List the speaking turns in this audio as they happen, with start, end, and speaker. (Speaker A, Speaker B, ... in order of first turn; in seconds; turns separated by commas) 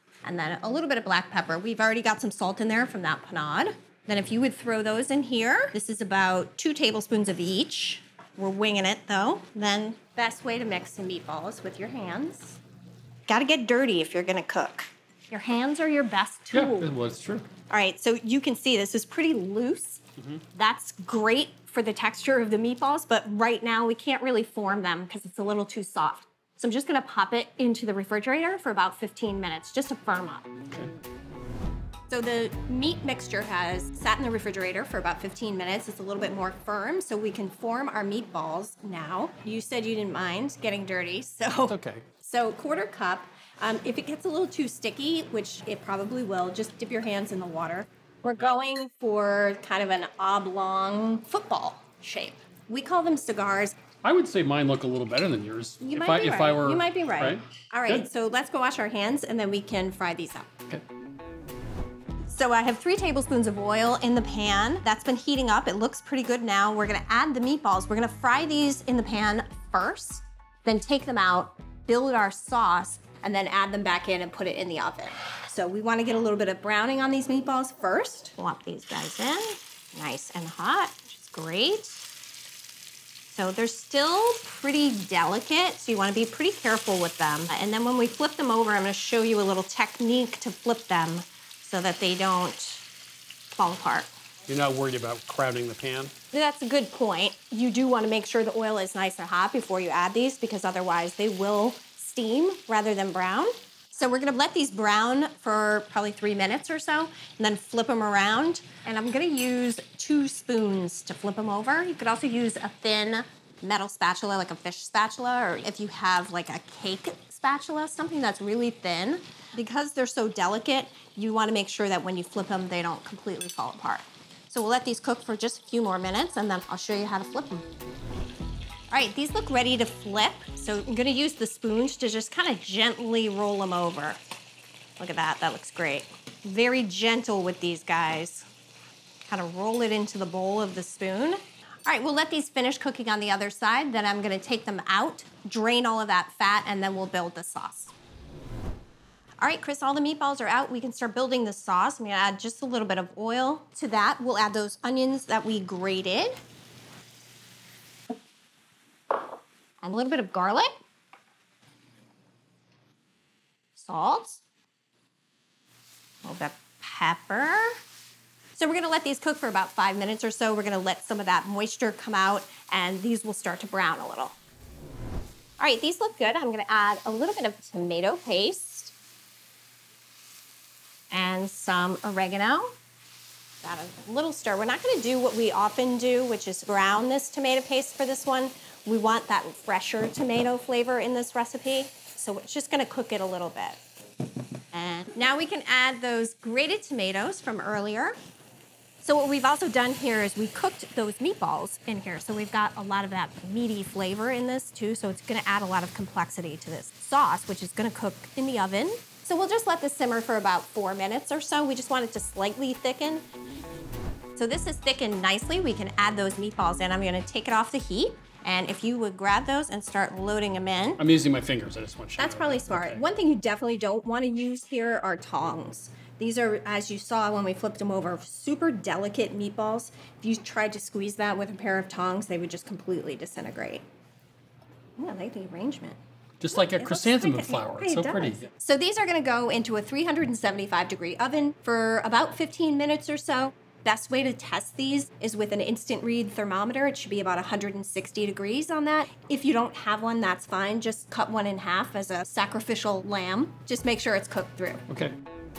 Speaker A: 0.2-12.6, Speaker A: 13.3-16.9, Speaker B: 16.5-17.4, Speaker A: 17.7-20.0, Speaker B: 20.2-20.4, Speaker A: 20.5-30.4, Speaker A: 32.1-53.8, Speaker B: 41.7-42.0, Speaker B: 54.0-58.1, Speaker A: 55.8-60.5, Speaker A: 62.2-82.0, Speaker A: 83.3-92.9, Speaker A: 93.5-94.1, Speaker B: 94.5-96.1, Speaker A: 96.3-127.7, Speaker A: 128.9-134.2, Speaker A: 135.0-138.4, Speaker A: 139.2-147.9, Speaker A: 149.4-156.4, Speaker A: 159.8-160.7, Speaker A: 163.8-164.4, Speaker A: 166.2-167.8, Speaker A: 168.6-174.3, Speaker A: 175.6-178.9, Speaker A: 181.1-182.7, Speaker A: 183.6-193.8, Speaker A: 194.7-198.2, Speaker A: 199.0-213.2, Speaker A: 214.4-221.0, Speaker B: 221.0-223.0, Speaker A: 222.2-233.8, Speaker A: 235.0-236.0, Speaker B: 236.4-238.5, Speaker A: 236.5-254.8, Speaker B: 254.9-255.1